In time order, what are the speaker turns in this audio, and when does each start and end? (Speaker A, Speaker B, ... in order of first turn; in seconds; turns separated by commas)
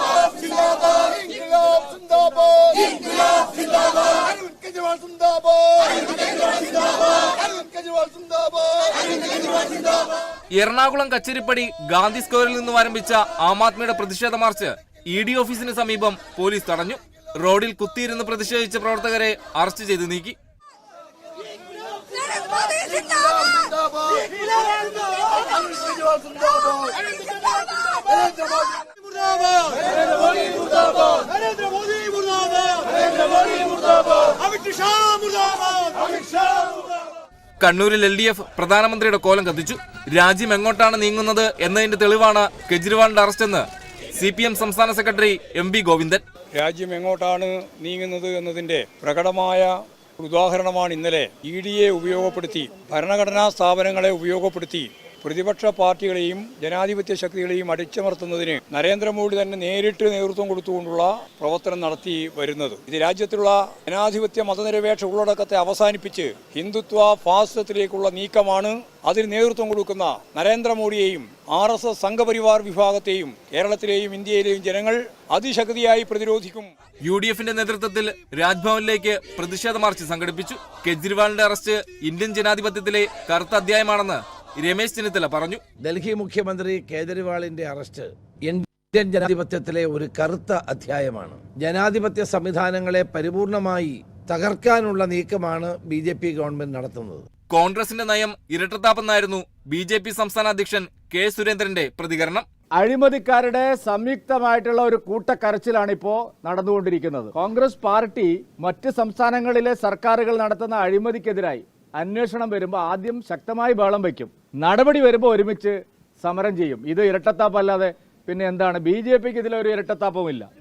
Speaker A: 1.4-2.7, Speaker A: 5.1-5.9, Speaker B: 10.6-20.4, Speaker A: 32.1-32.4, Speaker A: 34.8-35.8, Speaker B: 37.6-46.2, Speaker C: 46.5-76.7, Speaker B: 77.0-85.6, Speaker D: 85.8-97.3, Speaker B: 97.5-102.5, Speaker E: 102.8-120.5